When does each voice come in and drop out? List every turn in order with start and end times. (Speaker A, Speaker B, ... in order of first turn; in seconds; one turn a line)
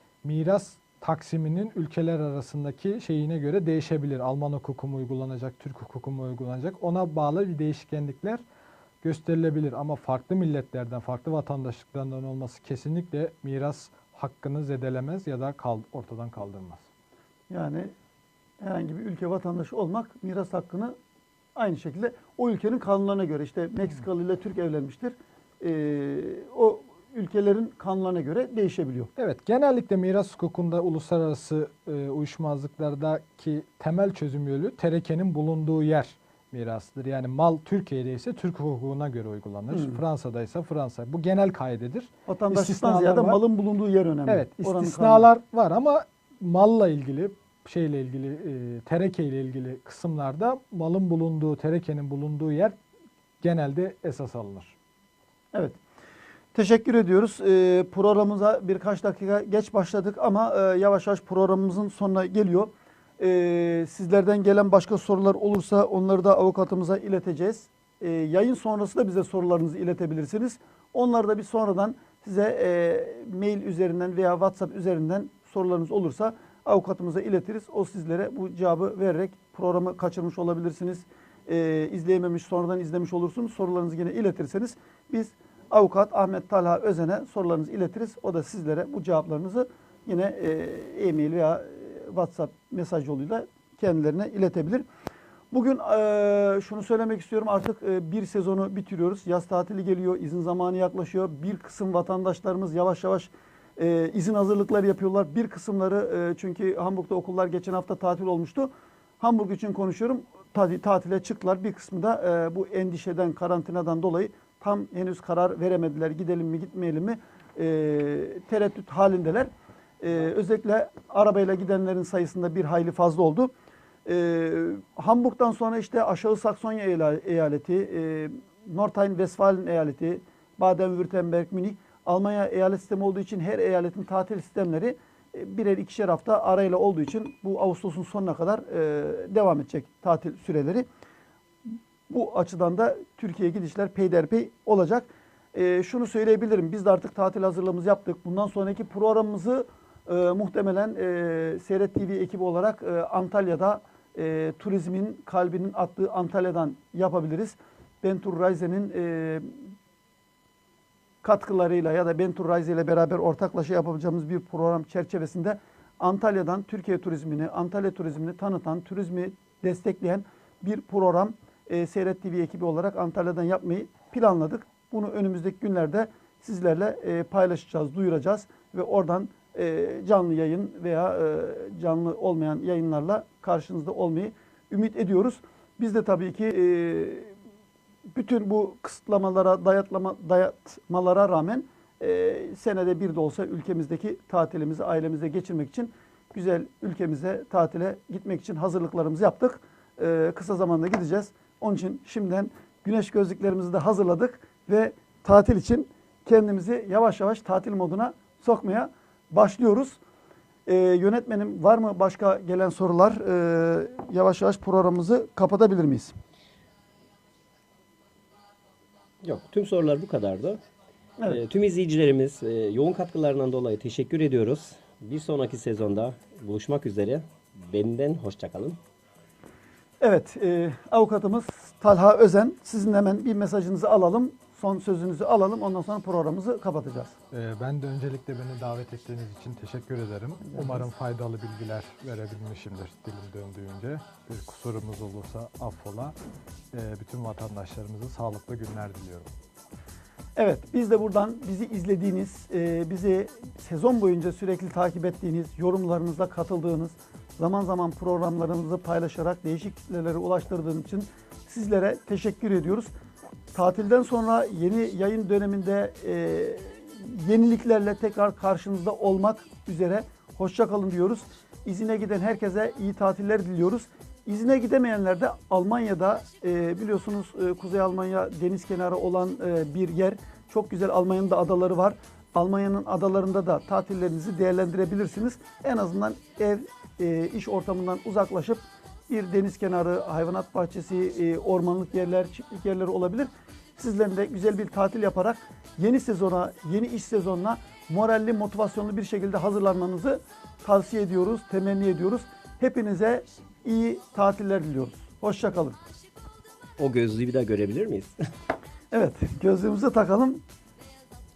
Speaker A: 0.2-8.4
Speaker A: 9.0-16.9
Speaker B: 17.5-17.9
Speaker B: 18.6-20.9
Speaker B: 21.6-29.1
Speaker A: 29.1-43.4
Speaker B: 39.7-40.0
Speaker B: 42.3-45.3
Speaker A: 44.3-52.8
Speaker A: 53.4-54.7
Speaker B: 55.5-55.8
Speaker B: 56.5-94.8
Speaker B: 95.5-119.5
Speaker B: 120.0-123.5
Speaker B: 124.1-140.9
Speaker B: 141.7-159.7
Speaker B: 161.2-187.3
Speaker B: 188.1-210.0
Speaker B: 210.7-216.2
Speaker C: 219.2-220.6
Speaker C: 221.3-228.8
Speaker B: 230.0-237.1
Speaker A: 237.3-246.2
Speaker B: 240.4-240.8
Speaker A: 246.7-249.3
Speaker B: 250.4-262.9
Speaker B: 263.5-305.8
Speaker C: 306.8-308.1
Speaker B: 308.9-310.4